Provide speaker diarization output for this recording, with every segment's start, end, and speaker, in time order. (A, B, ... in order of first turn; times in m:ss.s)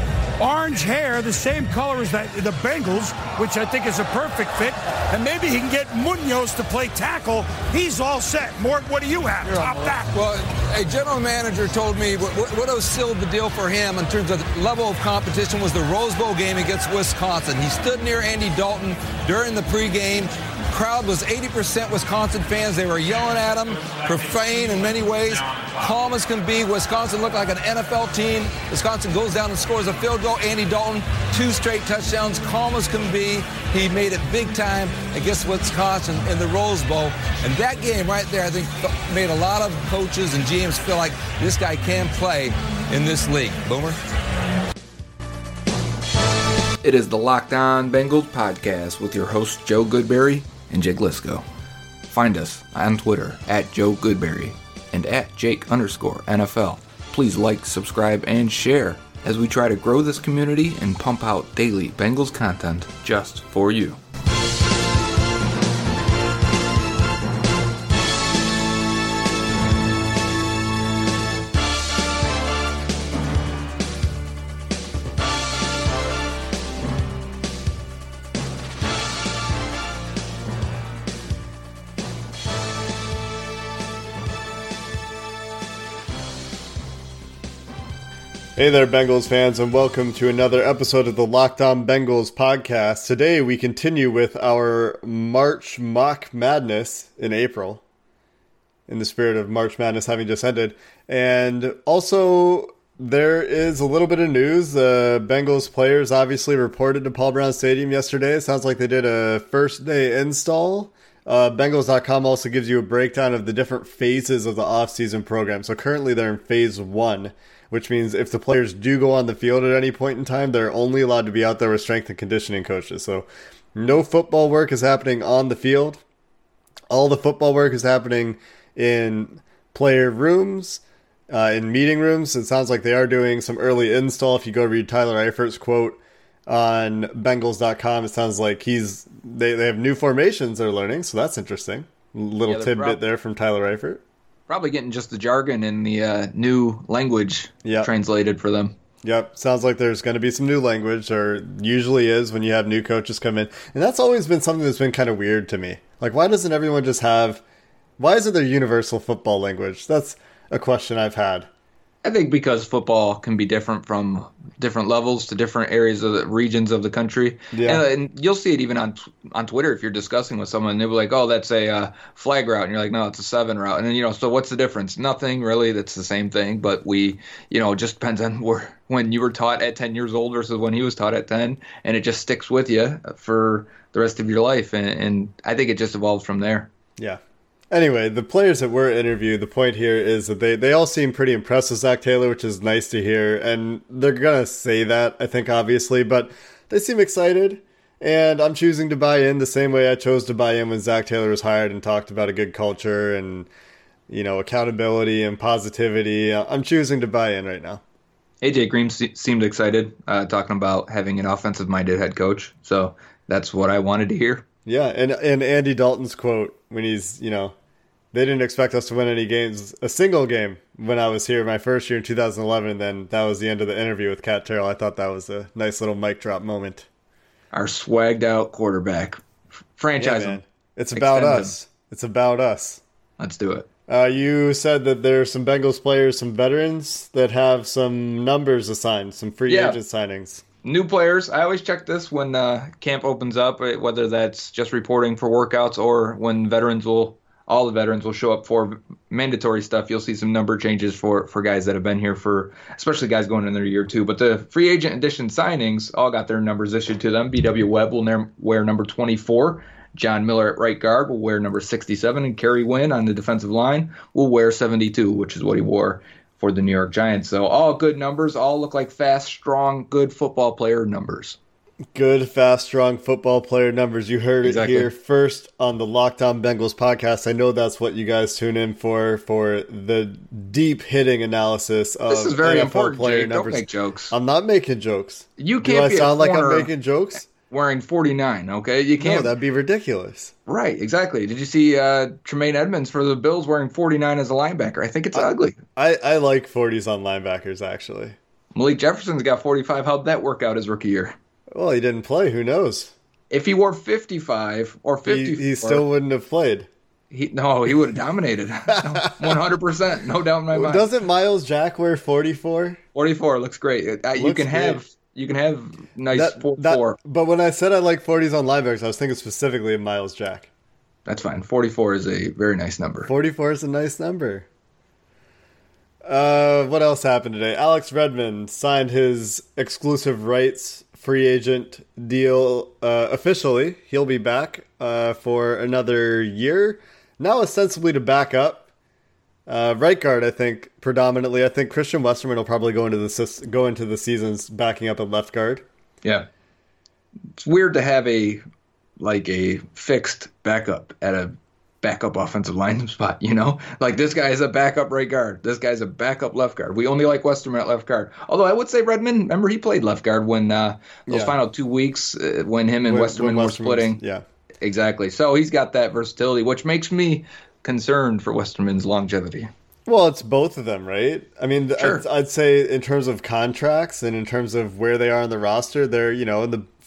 0:00.4-0:10.1 A
0:09.4-0:44.0 B
0:46.8-0:51.4 C
0:52.1-1:04.0 C
1:28.6-1:37.8 D
1:38.9-2:06.0 D
2:06.9-2:24.0 D
2:22.4-2:23.0 C
2:24.5-2:28.8 C
2:27.6-2:27.9 D
2:29.0-2:37.4 D
2:38.0-2:41.5 D
2:42.0-3:06.7 C
2:47.5-2:47.8 D
3:07.0-3:23.5 D
3:24.1-3:27.8 D
3:28.4-3:34.4 C
3:34.6-3:37.5 D
3:38.1-3:46.9 D
3:47.5-3:49.2 C
3:49.8-3:50.4 C
3:50.0-3:52.8 D
3:50.9-3:51.5 C
3:53.2-3:53.7 C
3:53.9-4:00.4 D
3:59.5-3:59.8 C
4:00.6-4:31.4 C
4:31.9-4:47.3 D
4:34.4-4:34.9 C
4:42.1-4:44.1 C
4:45.4-4:46.7 C
4:47.5-4:49.3 C
4:49.0-4:50.3 D
4:50.5-4:55.6 C
4:55.1-4:58.2 D
4:58.5-5:01.1 C
5:01.5-5:02.9 D
5:03.3-5:05.8 C
5:05.0-5:06.7 D
5:07.1-5:10.9 C
5:08.8-5:09.4 D
5:10.5-5:12.8 D
5:12.9-5:17.0 C
5:14.2-5:14.8 D
5:16.1-5:20.5 D
5:21.0-5:23.1 C
5:23.0-5:24.5 D
5:26.0-5:38.7 D
5:39.5-5:45.6 D
5:47.4-5:48.4 C
5:49.0-6:04.0 C
6:01.1-6:01.3 D
6:02.8-6:04.2 D
6:04.6-6:09.5 C
6:09.8-6:16.7 D
6:11.8-6:12.0 C